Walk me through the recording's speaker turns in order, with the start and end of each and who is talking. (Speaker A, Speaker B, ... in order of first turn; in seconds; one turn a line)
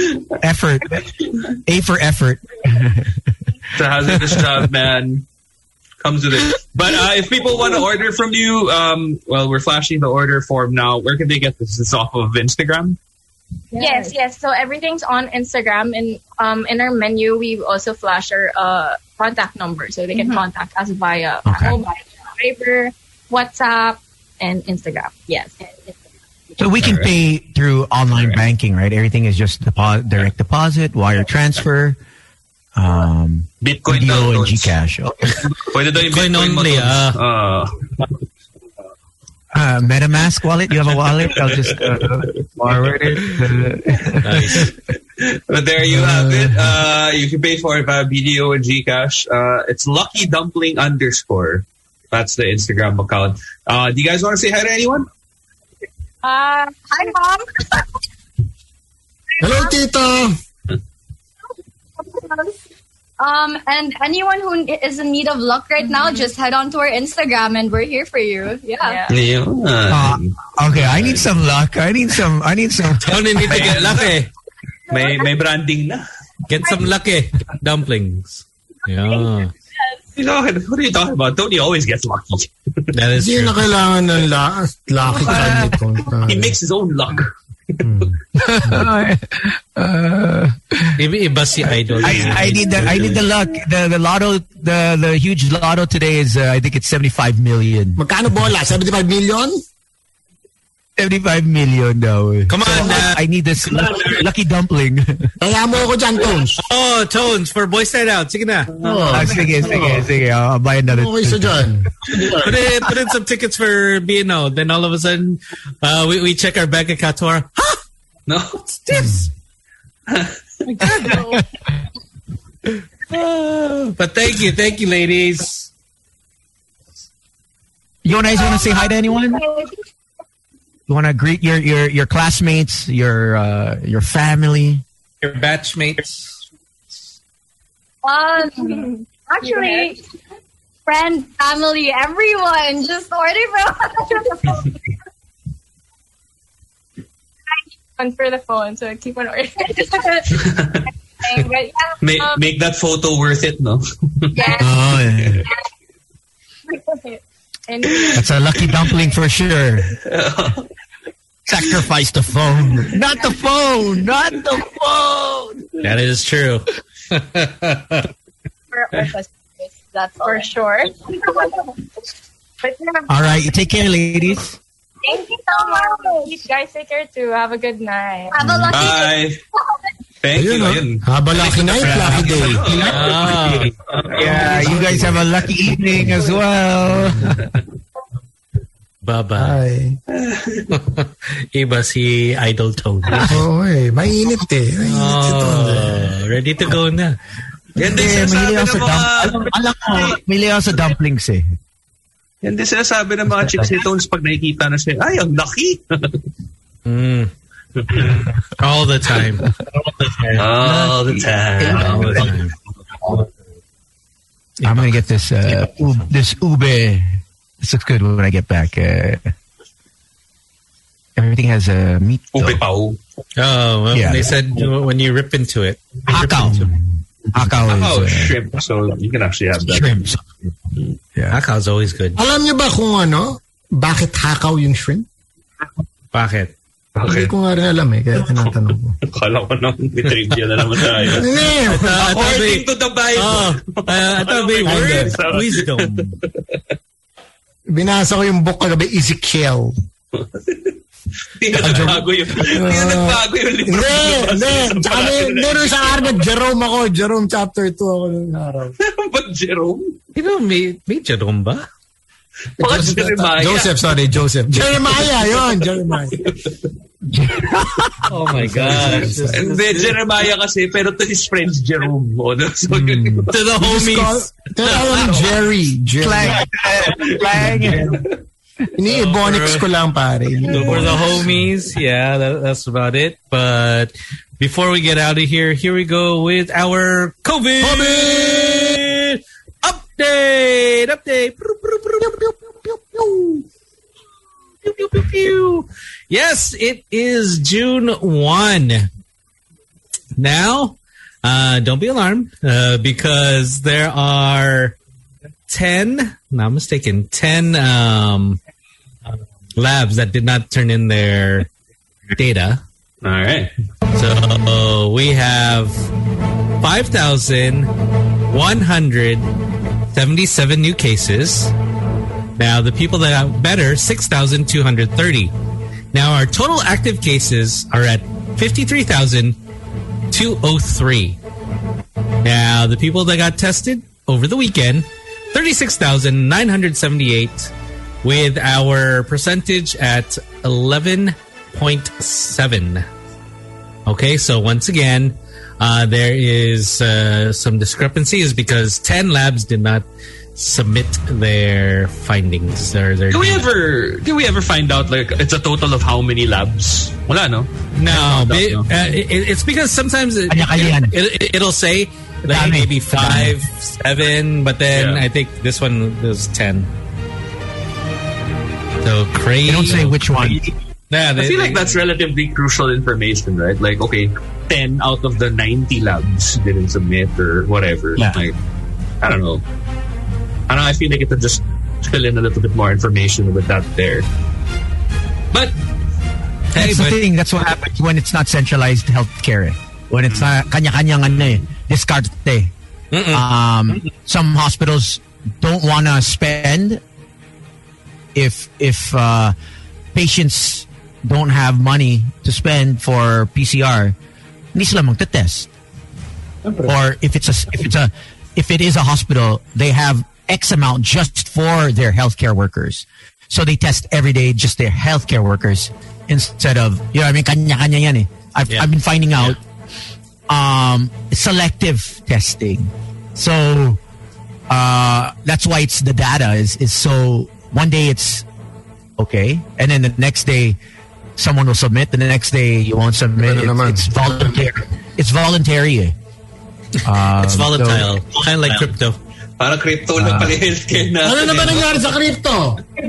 Speaker A: 0.4-3.2
Speaker B: 3.7-5.3
Speaker B: 6.0-13.0
Speaker C: 13.7-14.1
Speaker D: 13.8-25.9
Speaker C: 20.1-20.4
Speaker A: 21.5-21.8
Speaker A: 26.6-32.0
Speaker B: 26.8-27.1
Speaker A: 32.8-35.4
Speaker B: 33.6-34.7
Speaker B: 35.6-37.7
Speaker E: 36.0-37.2
Speaker A: 39.5-44.7
Speaker E: 44.2-44.7
Speaker B: 45.2-55.1
Speaker D: 56.2-57.1
Speaker C: 56.9-57.9
Speaker F: 59.4-60.4
Speaker C: 59.4-59.7
Speaker C: 62.1-62.5
Speaker C: 63.2-69.0
Speaker D: 65.8-66.3
Speaker D: 68.8-69.2
Speaker B: 69.1-71.2
Speaker A: 69.9-73.4
Speaker E: 73.0-74.3
Speaker B: 73.4-74.2
Speaker B: 74.9-76.0
Speaker E: 76.5-79.5
Speaker B: 80.2-82.9
Speaker E: 82.9-83.7
Speaker F: 83.2-86.6
Speaker B: 85.0-88.1
Speaker F: 87.8-88.9
Speaker A: 88.4-91.0
Speaker E: 91.0-93.1
Speaker B: 91.9-93.2
Speaker A: 92.0-98.0
Speaker F: 98.0-99.6
Speaker A: 101.0-105.3
Speaker E: 102.5-104.2
Speaker F: 105.4-106.6
Speaker E: 106.7-108.7
Speaker B: 108.7-109.9
Speaker F: 108.8-110.1
Speaker A: 109.1-111.6
Speaker F: 110.9-112.6
Speaker E: 112.4-117.8
Speaker B: 118.3-118.8
Speaker E: 118.9-119.3
Speaker F: 119.0-119.2
Speaker B: 120.1-120.4
Speaker E: 120.7-121.2
Speaker A: 121.0-121.4
Speaker C: 121.1-121.4
Speaker E: 123.1-125.7
Speaker A: 128.0-129.4
Speaker C: 128.1-129.7
Speaker A: 130.9-134.8
Speaker E: 135.2-136.3
Speaker C: 138.1-140.0
Speaker D: 138.3-140.0
Speaker C: 140.9-144.7
Speaker D: 144.1-144.5
Speaker D: 148.0-150.6
Speaker B: 150.3-150.9
Speaker D: 151.2-152.4
Speaker B: 152.0-154.4
Speaker D: 154.3-154.8
Speaker A: 154.6-155.5
Speaker B: 155.2-155.5
Speaker D: 156.7-158.3
Speaker A: 158.2-159.9
Speaker B: 160.0-160.7
Speaker A: 161.5-165.6
Speaker E: 165.8-168.1
Speaker C: 168.7-170.5
Speaker D: 170.2-171.6
Speaker C: 171.1-171.6
Speaker D: 172.6-173.1
Speaker A: 173.1-174.6
Speaker D: 175.0-178.6
Speaker C: 175.1-176.4
Speaker C: 178.3-179.2
Speaker B: 178.7-179.4
Speaker B: 180.2-185.1
Speaker F: 180.3-183.1
Speaker E: 182.9-183.7
Speaker A: 184.1-187.4
Speaker F: 186.9-187.4
Speaker E: 189.0-189.6
Speaker F: 189.4-190.0
Speaker B: 190.1-190.7
Speaker E: 190.7-193.4
Speaker F: 193.3-196.1
Speaker E: 194.8-197.2
Speaker B: 197.8-200.2
Speaker A: 197.8-201.5
Speaker B: 202.4-206.2
Speaker E: 206.9-207.3
Speaker B: 207.8-208.1
Speaker E: 208.6-212.6
Speaker B: 210.3-212.4
Speaker E: 214.6-214.9
Speaker A: 214.6-219.3
Speaker A: 221.2-222.6
Speaker B: 222.3-223.0
Speaker E: 223.4-226.7
Speaker A: 223.9-224.3
Speaker A: 226.1-226.7
Speaker A: 227.3-228.3
Speaker B: 227.7-230.0
Speaker A: 229.7-230.2
Speaker E: 231.3-232.2
Speaker F: 232.2-235.1
Speaker E: 236.1-236.5
Speaker B: 236.9-237.3
Speaker F: 237.1-239.0
Speaker B: 239.0-246.6
Speaker E: 241.0-246.2
Speaker F: 241.1-242.1
Speaker F: 244.7-245.2
Speaker F: 247.7-249.8
Speaker B: 250.2-250.8
Speaker B: 251.4-256.3
Speaker F: 251.5-258.8
Speaker B: 258.8-260.0
Speaker E: 260.1-261.7
Speaker B: 262.6-263.8
Speaker F: 262.6-266.3
Speaker B: 264.5-265.6
Speaker B: 266.2-266.5
Speaker A: 267.1-268.1
Speaker E: 268.1-270.0
Speaker F: 268.3-269.4
Speaker B: 269.3-273.4
Speaker F: 272.7-276.5
Speaker E: 273.3-275.1
Speaker B: 274.7-275.4
Speaker A: 276.0-278.0
Speaker B: 277.0-278.1
Speaker F: 277.4-277.7
Speaker F: 278.8-281.2
Speaker E: 278.9-279.7
Speaker E: 280.5-292.4
Speaker F: 287.6-288.8
Speaker E: 292.9-293.4
Speaker E: 294.6-298.9
Speaker E: 300.2-304.8
Speaker E: 305.5-308.4
Speaker E: 309.6-311.5
Speaker E: 312.2-312.6
Speaker B: 313.0-313.5
Speaker E: 313.9-315.9
Speaker E: 316.6-317.7
Speaker E: 318.3-319.3
Speaker E: 319.9-321.5
Speaker E: 322.4-325.3
Speaker E: 325.9-329.4
Speaker E: 330.1-331.2
Speaker E: 332.2-337.5
Speaker E: 338.0-342.9
Speaker E: 343.9-353.5
Speaker B: 353.1-358.7
Speaker E: 357.8-366.7
Speaker A: 360.3-360.9
Speaker A: 362.3-363.4
Speaker B: 364.7-365.0
Speaker E: 368.8-370.4
Speaker A: 369.5-370.5
Speaker E: 370.9-371.8
Speaker B: 371.2-378.4
Speaker B: 379.0-379.4
Speaker B: 380.5-384.1
Speaker A: 386.5-392.5
Speaker E: 386.6-387.0
Speaker E: 392.9-393.2
Speaker A: 393.1-396.8
Speaker A: 398.1-399.4
Speaker A: 399.9-403.9
Speaker A: 404.5-405.5
Speaker B: 406.5-406.7
Speaker A: 406.6-419.4
Speaker E: 418.5-419.4
Speaker A: 420.3-423.8
Speaker A: 424.5-428.3
Speaker A: 429.0-430.6
Speaker A: 431.2-435.9
Speaker F: 433.2-434.3
Speaker A: 436.8-438.2
Speaker E: 437.1-439.0
Speaker B: 439.4-441.9
Speaker A: 440.0-440.3
Speaker F: 441.0-442.6